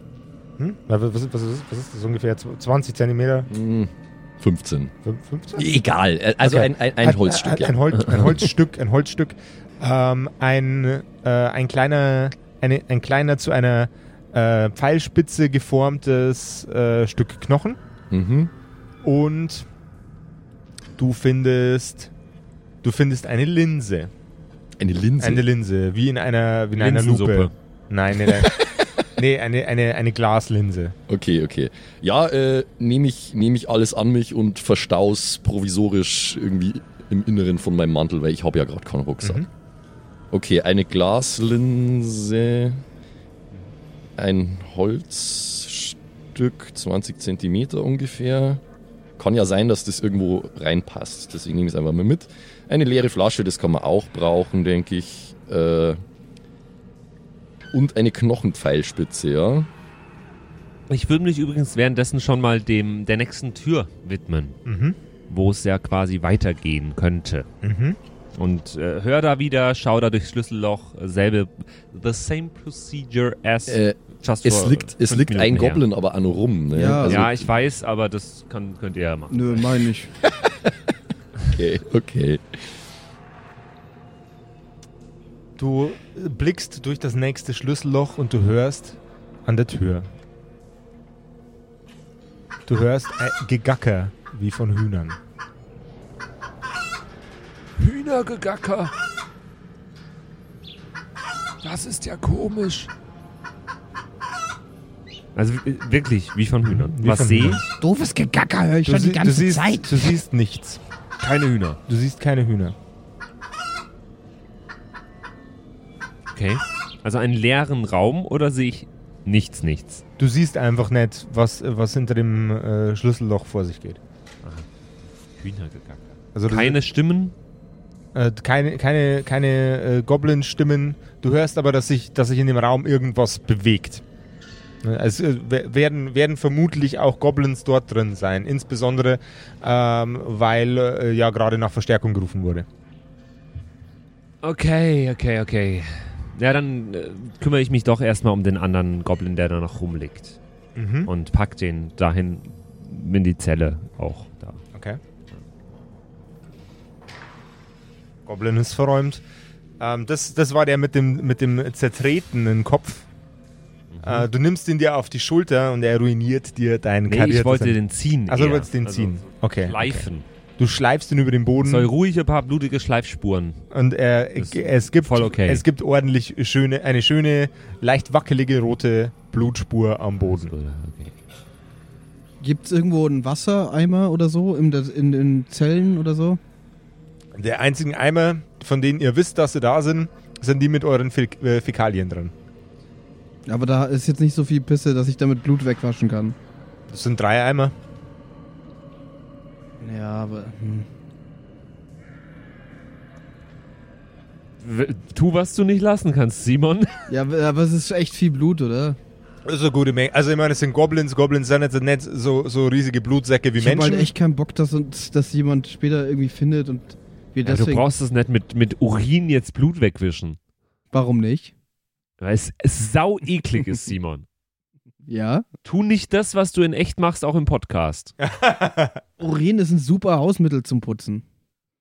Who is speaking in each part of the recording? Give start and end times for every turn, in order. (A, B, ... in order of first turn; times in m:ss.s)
0:00.6-0:03.5 A
0:03.5-0:04.9 B
0:05.0-0:05.6 A
0:05.6-0:08.4 B
0:06.4-0:17.8 A
0:18.1-0:18.5 B
0:19.0-0:19.7 A
0:21.0-0:22.1 A
0:22.8-0:24.1 A
0:24.8-0:25.4 B
0:25.2-0:31.0 A
0:26.8-0:27.5 C
0:31.1-0:39.5 B
0:39.2-0:39.5 A
0:40.3-0:42.8 B
0:44.2-0:48.6 B
0:49.2-0:56.0 B
0:57.7-0:59.7 B
1:00.9-1:04.6 C
1:04.6-1:05.0 A
1:05.3-1:07.5 C
1:07.6-1:08.0 A
1:08.4-1:15.9 C
1:13.7-1:17.5 B
1:16.7-1:17.2 D
1:17.0-1:19.6 C
1:19.3-1:20.1 D
1:21.5-1:22.4 B
1:25.6-1:30.1 A
1:32.7-1:35.2 A
1:37.8-1:38.9 E
1:41.6-1:42.9 E
1:45.4-1:47.7 C
1:46.6-1:47.6 A
1:47.8-1:50.1 F
1:48.9-1:50.8 A
1:51.2-1:51.8 C
1:51.9-1:52.8 A
1:56.3-2:00.0 C
2:00.2-2:04.0 A
2:05.4-2:07.4 C
2:06.4-2:06.8 A
2:08.2-2:14.0 A
2:14.8-2:22.7 A
2:24.4-2:30.4 C
2:30.8-2:31.1 A
2:31.1-2:34.6 C
2:34.7-2:35.0 A
2:38.3-2:39.2 A
2:39.8-2:43.1 A
2:43.9-2:44.3 C
2:44.0-2:50.1 A
2:47.1-2:50.2 C
2:50.6-2:51.9 A
2:51.6-2:53.6 C
2:53.7-3:00.5 A
2:54.4-2:55.6 C
3:00.3-3:01.1 C
3:02.4-3:06.4 D
3:07.4-3:12.3 A
3:13.5-3:16.4 D
3:16.9-3:17.7 A
3:19.8-3:20.9 D
3:24.6-3:27.0 C
3:27.1-3:29.0 D
3:29.5-3:34.1 A
3:33.6-3:37.8 D
3:37.4-3:40.4 C
3:40.9-3:41.5 D
3:42.2-3:44.3 C
3:45.1-3:45.5 D
3:45.6-3:48.1 C
3:48.2-3:49.0 A
3:49.2-3:51.2 D